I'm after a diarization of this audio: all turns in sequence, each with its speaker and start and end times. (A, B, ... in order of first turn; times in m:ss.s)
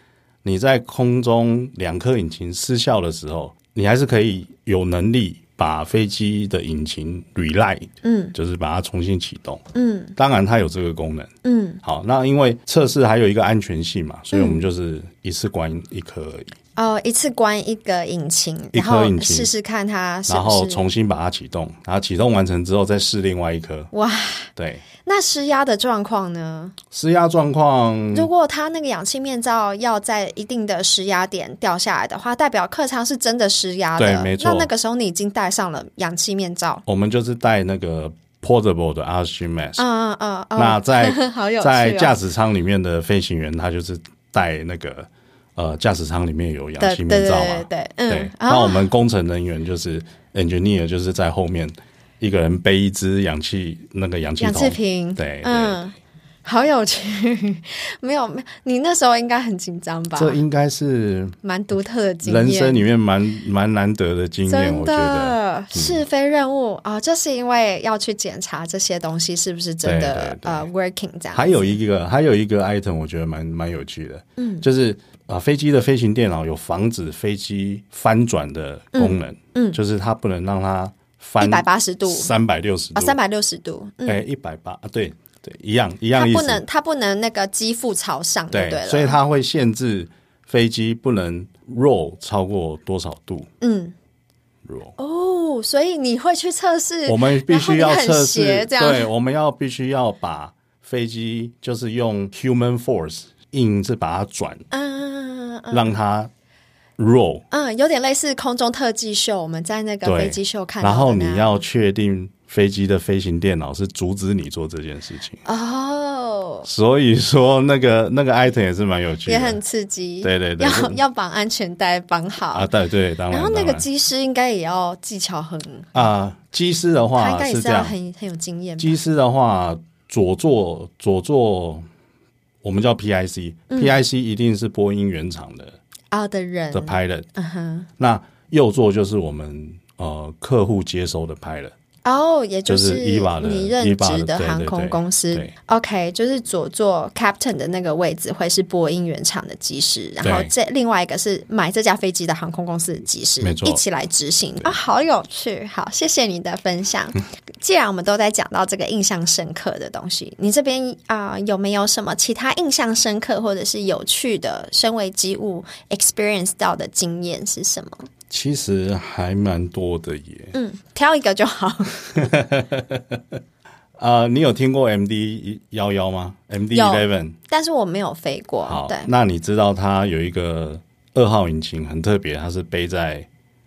0:00.4-0:16.5 A
0:08.0-0:08.3 B
0:09.7-0:10.1 B
0:11.4-0:11.8 B
0:14.3-0:14.6 B
0:16.8-0:20.9 B
0:18.7-0:19.5 A
0:20.3-0:23.9 A
0:23.9-0:26.8 B
0:24.5-0:24.8 A
0:26.9-0:28.3 A
0:28.1-0:36.8 B
0:34.0-0:34.7 A
0:36.9-0:39.8 A
0:39.8-0:42.2 B
0:40.6-0:55.8 A
0:46.8-0:48.9 B
0:54.4-1:00.4 B
1:00.1-1:01.4 A
1:01.4-1:02.8 B
1:02.2-1:06.0 A
1:04.5-1:11.8 B
1:09.8-1:10.7 A
1:11.3-1:23.2 A
1:14.4-1:14.6 B
1:18.9-1:19.8 B
1:21.4-1:22.3 B
1:22.9-1:24.2 B
1:24.0-1:26.6 A
1:26.1-1:29.2 B
1:28.5-1:33.5 A
1:33.6-1:33.9 B
1:34.6-1:34.9 A
1:35.0-1:39.1 B
1:37.0-1:44.6 A
1:44.7-1:46.0 B
1:45.7-1:46.3 A
1:47.0-1:47.4 A
1:47.5-1:51.6 B
1:50.0-1:55.4 A
1:55.4-1:56.7 B
1:56.6-1:59.6 A
1:59.2-2:02.7 B
2:00.2-2:01.0 A
2:02.5-2:03.9 A
2:03.3-2:06.1 B
2:05.9-2:07.9 A
2:07.2-2:09.0 B
2:08.8-2:11.9 A
2:12.6-2:15.8 A
2:16.1-2:17.9 B
2:16.7-2:17.2 A
2:18.0-2:21.7 A
2:22.0-2:48.1 B
2:22.7-2:25.5 A
2:30.2-2:30.5 A
2:33.4-2:33.8 A
2:48.3-2:50.5 A
2:50.5-2:52.1 B
2:52.1-2:53.2 A
2:54.0-2:57.4 A
2:56.7-2:59.1 B
2:58.6-3:03.3 A